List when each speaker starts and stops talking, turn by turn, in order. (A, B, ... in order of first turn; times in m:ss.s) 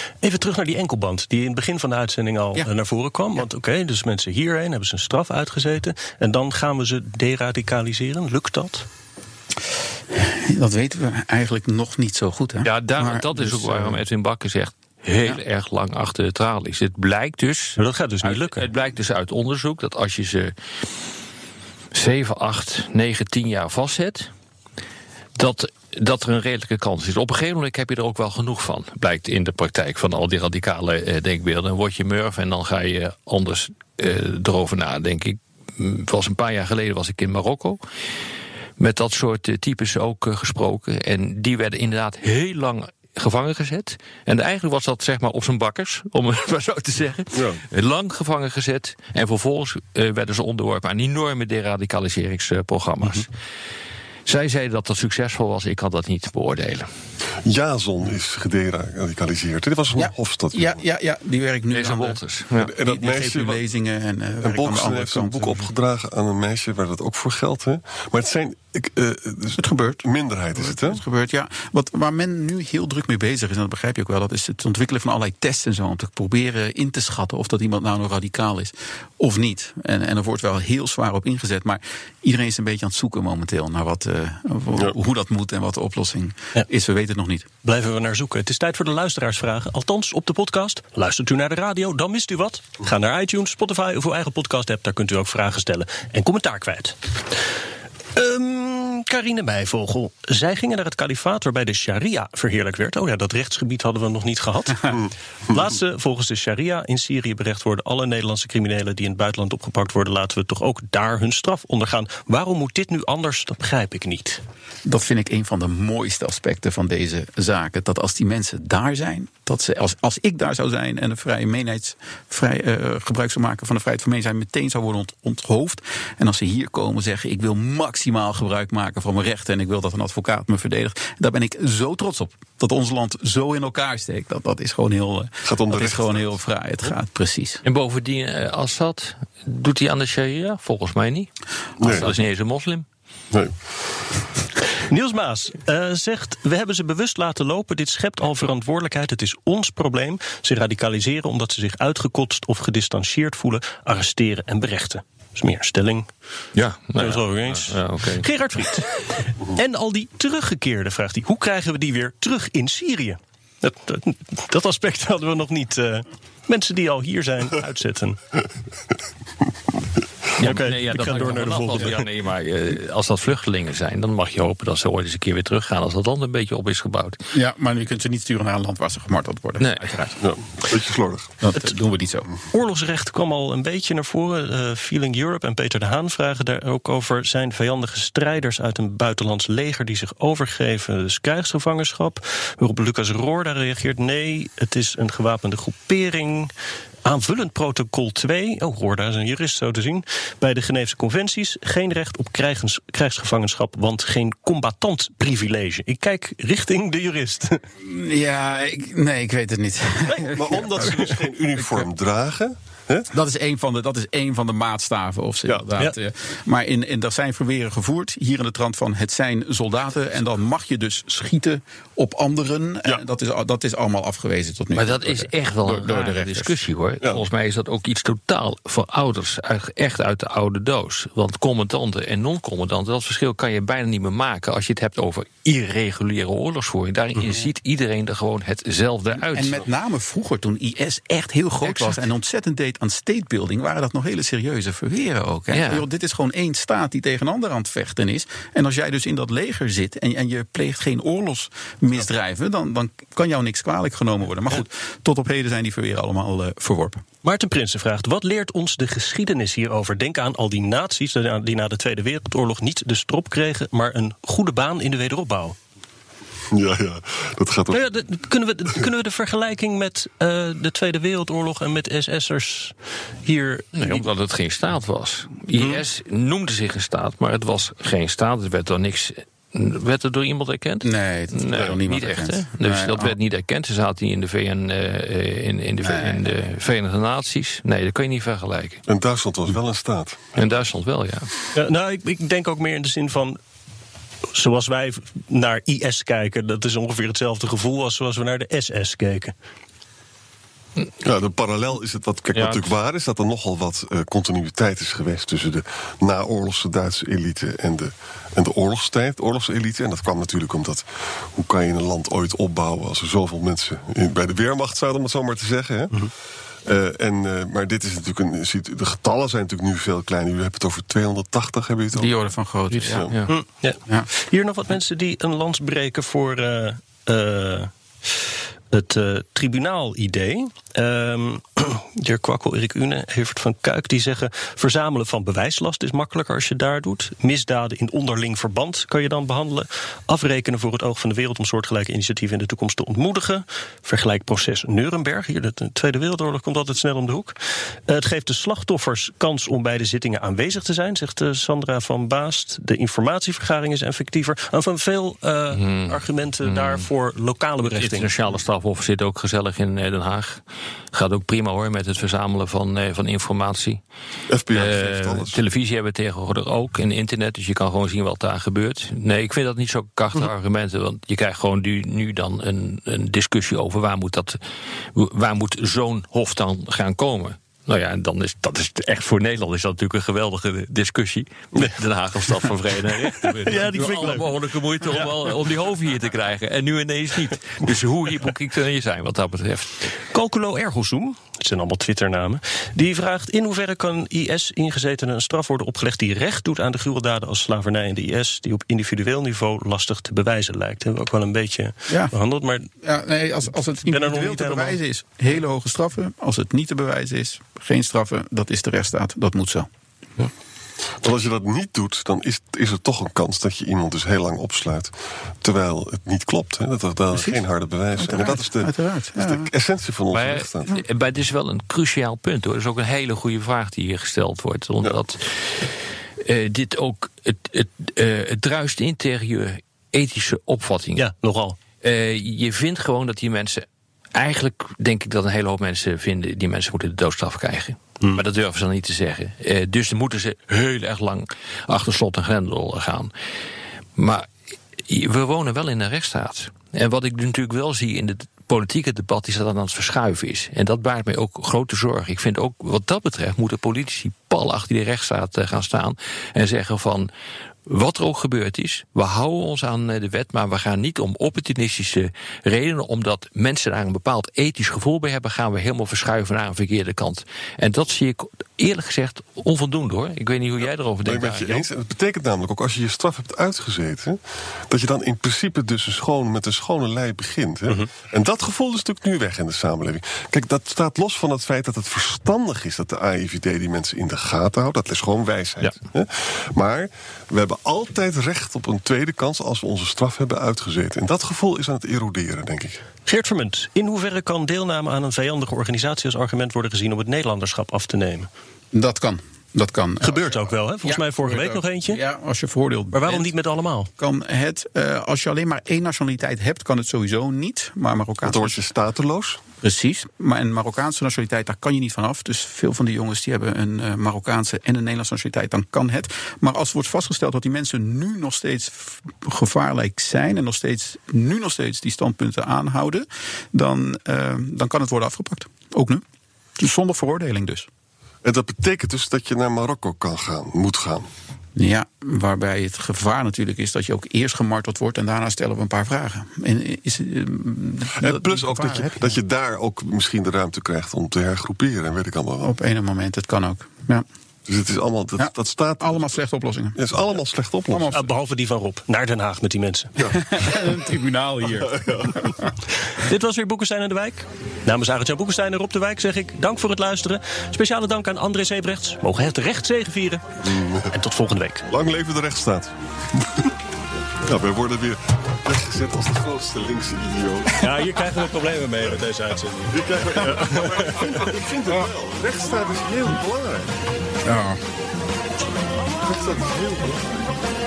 0:00.2-0:08.9 A
0:10.1-0:14.0 B
0:12.6-0:20.5 C
0:17.8-0:18.6 A
0:21.9-0:24.3 C
0:25.4-0:37.8 C
0:38.8-0:53.3 C
0:47.3-0:47.6 D
0:54.2-0:56.8 C
0:57.4-1:00.8 D
1:00.0-1:05.7 B
1:01.7-1:02.7 C
1:02.6-1:03.6 D
1:04.4-1:11.0 D
1:09.6-1:27.5 B
1:27.6-1:37.3 A
1:38.1-1:54.4 A
1:44.9-1:45.6 D
1:54.8-2:17.6 B
2:15.4-2:16.3 D
2:17.6-2:21.3 C
2:21.8-2:22.1 D
2:21.8-2:22.8 C
2:23.3-2:24.2 D
2:24.8-2:36.1 A
2:36.5-2:38.2 C
2:37.0-2:48.2 A
2:50.4-2:57.2 C
2:50.4-2:52.0 A
2:57.3-3:00.1 B
2:59.6-3:00.1 C
3:00.2-3:01.3 D
3:01.4-3:02.3 B
3:02.5-3:16.5 A
3:17.0-3:27.6 A
3:27.8-3:31.9 B
3:30.1-3:31.1 A
3:30.3-3:33.1 D
3:33.1-3:46.6 B
3:44.7-3:59.7 C
3:59.1-4:17.0 B
4:01.6-4:02.0 C
4:05.5-4:05.8 C
4:17.2-4:25.6 A
4:26.5-4:27.9 D
4:27.7-4:34.0 A
4:33.7-4:48.8 C
4:35.6-4:35.8 A
4:40.8-4:43.2 B
4:45.8-4:46.3 B
4:48.9-4:50.5 D
4:50.3-4:51.3 C
4:51.5-4:53.4 A
4:54.3-4:59.3 A
5:01.0-5:15.9 D
5:02.3-5:02.7 C
5:16.6-5:22.2 D
5:21.9-5:23.1 B
5:22.7-5:23.4 C
5:22.8-5:23.1 D
5:23.3-5:58.1 A
5:55.5-5:56.9 C
5:57.7-6:00.4 C
6:00.9-6:03.8 C
6:04.3-6:05.4 D
6:04.5-6:14.4 C
6:14.9-6:29.9 C
6:23.4-6:24.3 A
6:24.9-6:25.2 A
6:30.1-6:42.7 A
6:42.8-6:49.7 B
6:43.9-6:44.8 A
6:51.0-7:00.7 D
6:57.1-6:59.5 B
7:00.1-7:11.0 C
7:11.0-7:11.6 A
7:11.8-7:23.1 C
7:24.0-7:24.3 C
7:24.9-7:37.1 C
7:37.6-7:51.6 C
7:51.0-7:54.2 D
7:54.7-8:12.8 D
8:13.0-8:18.3 A
8:18.7-8:23.3 B
8:20.0-8:22.0 A
8:22.9-8:23.9 A
8:24.0-8:28.6 B
8:28.2-8:29.4 D
8:29.6-8:46.0 B
8:46.6-8:47.7 B
8:48.2-8:51.1 D
8:51.6-8:59.2 B
8:58.0-9:02.5 D
9:02.4-9:04.0 B
9:04.5-9:06.1 D
9:05.2-9:06.8 B
9:06.8-9:07.9 D
9:07.7-9:08.1 B
9:07.9-9:09.9 A
9:10.0-9:10.6 D
9:10.1-9:12.5 B
9:11.6-9:12.3 D
9:12.8-9:20.2 A
9:20.4-9:20.9 D
9:20.9-9:21.7 A
9:21.7-9:23.5 D
9:24.2-9:27.9 D
9:27.6-9:31.3 A
9:29.7-9:33.8 D
9:34.2-9:34.6 B
9:36.0-9:37.3 D